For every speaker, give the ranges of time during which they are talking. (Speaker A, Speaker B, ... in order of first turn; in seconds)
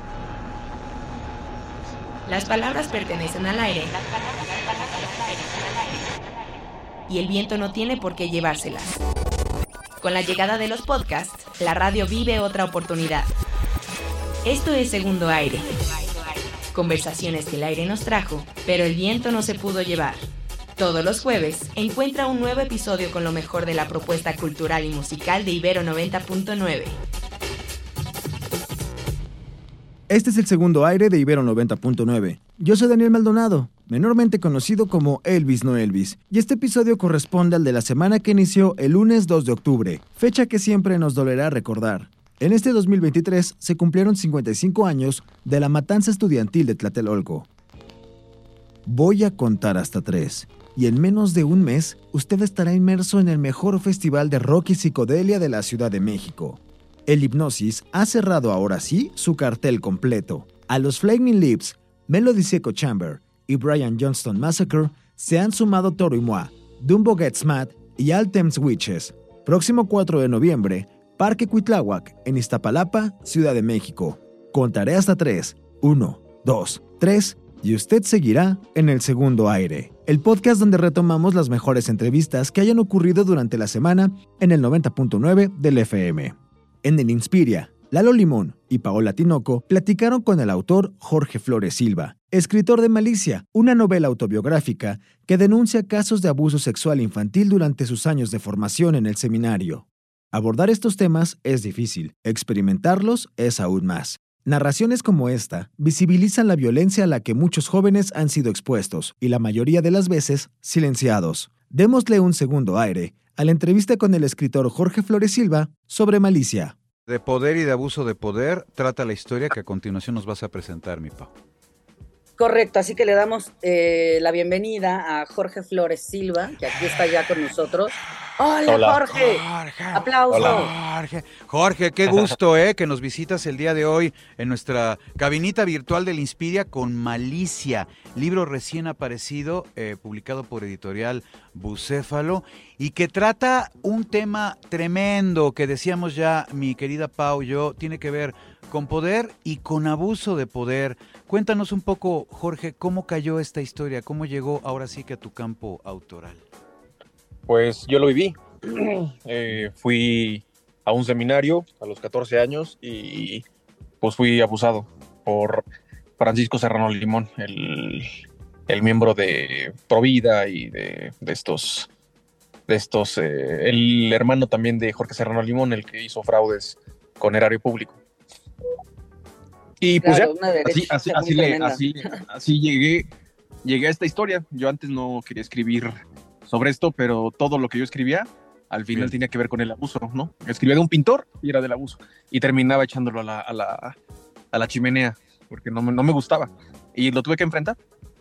Speaker A: 2.2-4.0, 7.1-9.0, 10.0-13.3, 14.4-15.7, 16.7-20.2, 20.8-27.0
Speaker B: 30.1-47.5, 48.9-116.8
Speaker C: 117.1-121.3, 129.1-156.4
Speaker D: 122.4-130.7, 180.0-181.8
Speaker E: 128.7-129.0, 130.3-130.6, 132.1-132.3, 157.5-163.4, 164.0-165.6, 166.2-168.1, 168.7-171.9, 172.7-178.0, 179.8-183.1, 183.6-194.0, 194.5-197.8